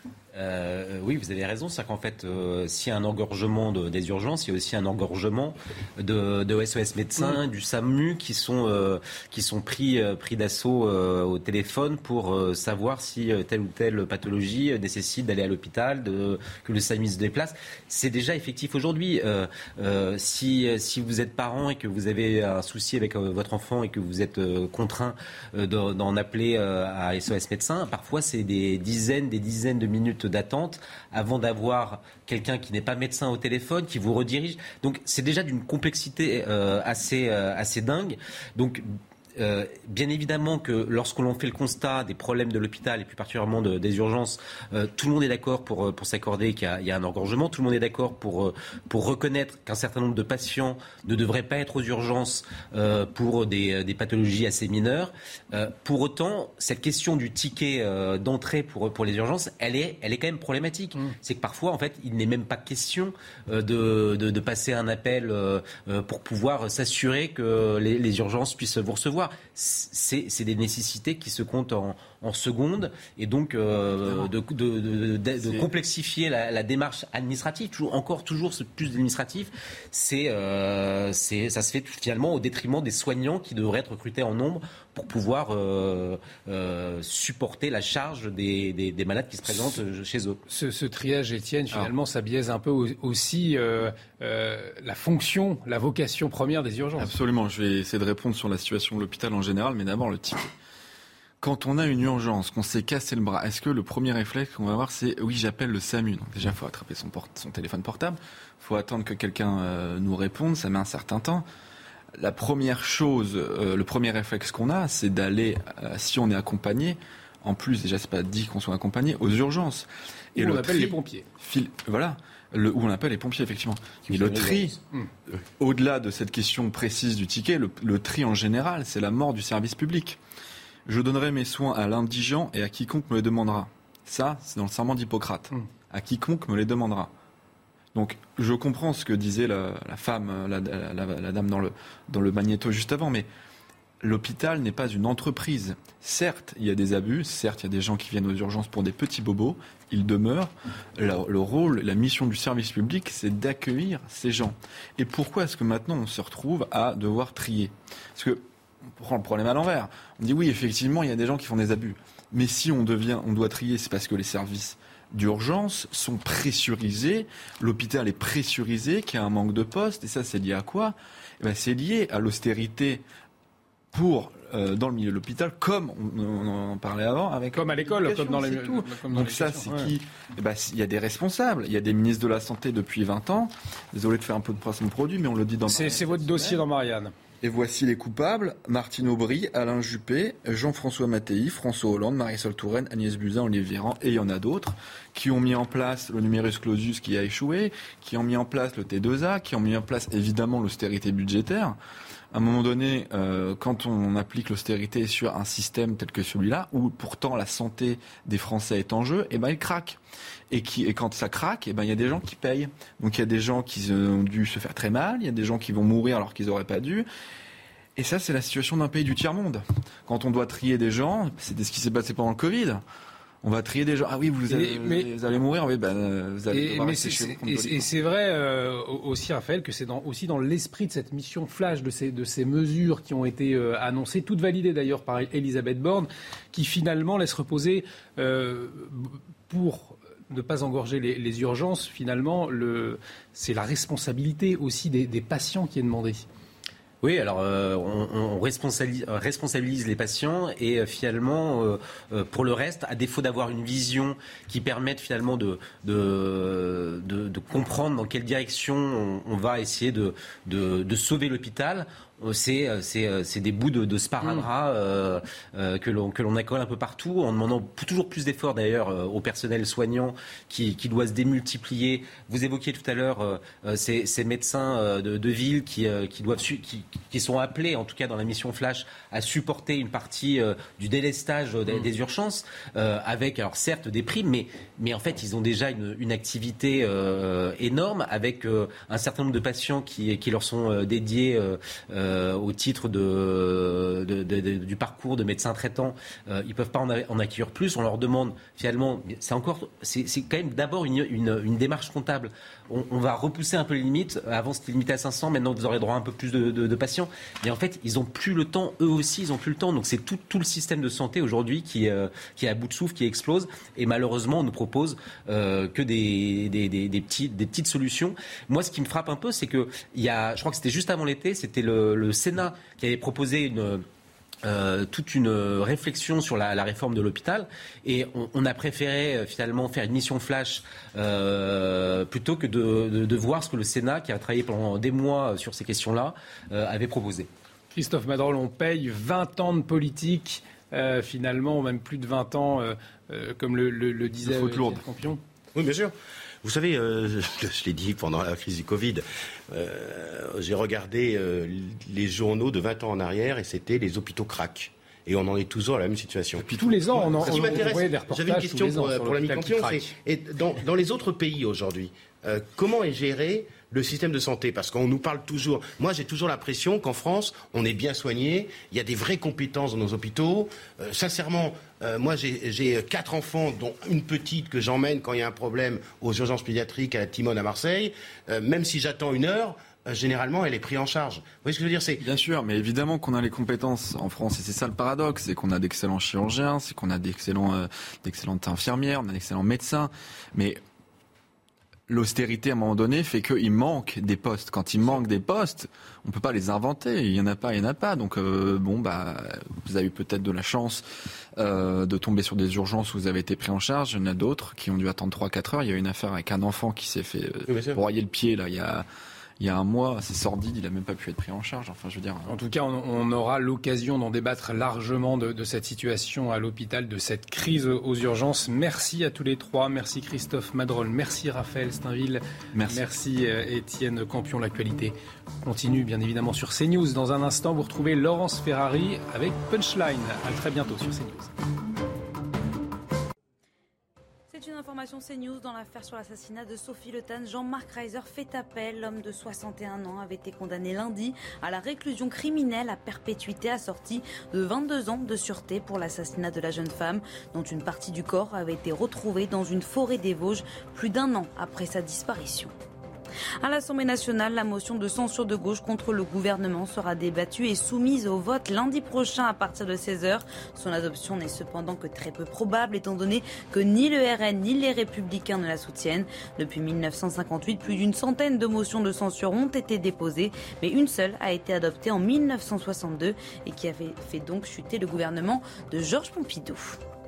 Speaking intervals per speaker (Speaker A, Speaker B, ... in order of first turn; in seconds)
Speaker A: 0.3-90.4, 124.1-124.7, 247.0-323.8, 324.4-337.3
Speaker B: 74.0-74.3, 75.4-75.7, 97.0-100.5, 101.4-111.5, 112.2-124.8, 125.6-130.2, 130.9-137.1, 137.9-143.3, 144.0-158.4, 158.9-173.0, 173.9-186.6, 187.4-201.8, 202.3-210.0, 210.5-217.1, 218.0-222.8, 223.4-227.9, 344.2-344.8, 382.0-390.6, 391.9-400.8, 401.4-408.9, 409.4-412.3, 422.5-422.9
Speaker C: 90.5-97.1, 120.4-121.3, 177.5-179.9, 185.7-187.1, 224.5-225.1, 226.5-246.2, 337.7-345.2, 356.4-359.9, 412.3-431.3
Speaker D: 345.6-382.0, 407.5-407.8
Speaker E: 434.3-452.5, 453.4-476.8